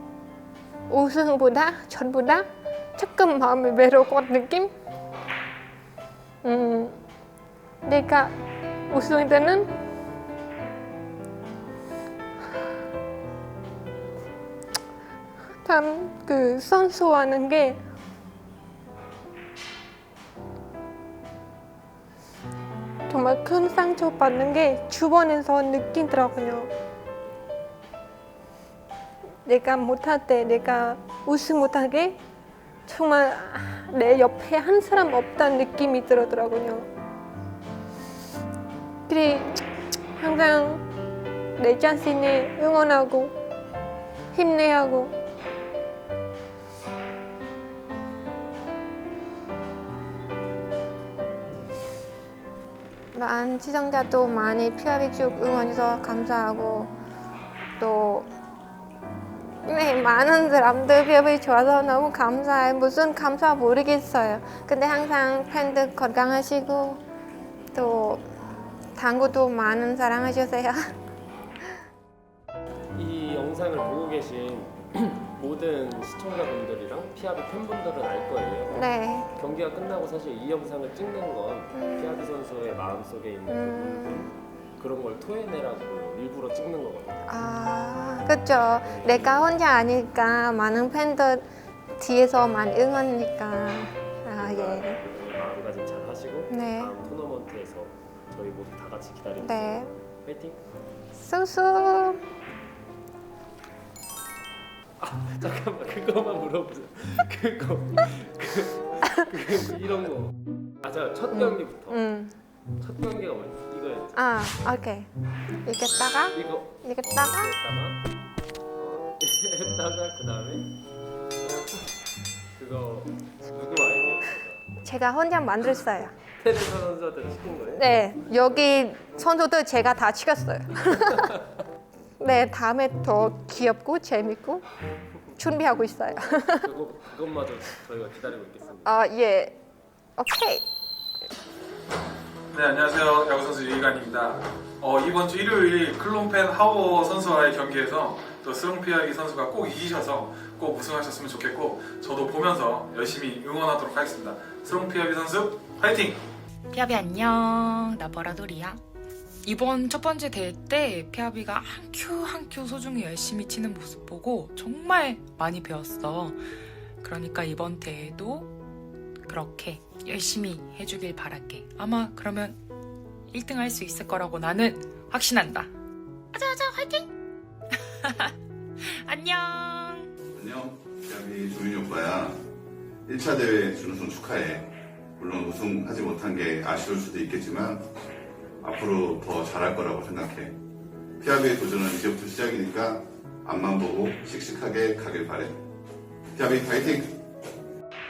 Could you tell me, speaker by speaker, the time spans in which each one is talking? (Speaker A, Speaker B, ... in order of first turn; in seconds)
Speaker A: 0.9-4.7, 6.4-7.0, 7.8-8.3, 8.9-9.7, 15.6-17.8, 23.1-26.7, 29.4-32.2, 32.9-36.9, 39.1-39.6, 40.2-40.8, 41.6-43.3, 44.3-45.1, 53.1-56.9, 57.8-58.3, 59.6-67.0, 67.7-68.3, 68.9-70.8, 78.7-79.3, 81.7-82.2, 83.5-84.3, 87.3-91.5, 92.0-95.0, 96.5-96.9, 99.4-99.9, 101.2-102.2, 111.3-112.4, 114.1-115.1, 115.6-117.5, 124.8-126.1, 127.7-131.4, 132.2-134.6, 135.3-136.7, 138.8-139.6, 140.2-140.7
Speaker B: 72.9-78.8, 79.3-87.3, 88.8-89.5, 94.4-100.6, 105.0-110.3, 110.8-112.0, 112.8-114.2, 116.3-118.0, 118.8-120.7, 121.4-121.8, 122.5-124.6, 126.4-127.9, 136.6-139.0
Speaker C: 142.5-156.2
Speaker D: 156.7-158.8, 159.4-166.4, 167.0-168.5, 169.2-172.6, 173.3-175.7, 176.3-177.0, 179.0-180.1
Speaker E: 180.3-182.4, 183.1-187.9, 188.6-190.6, 191.2-195.6, 196.3-197.2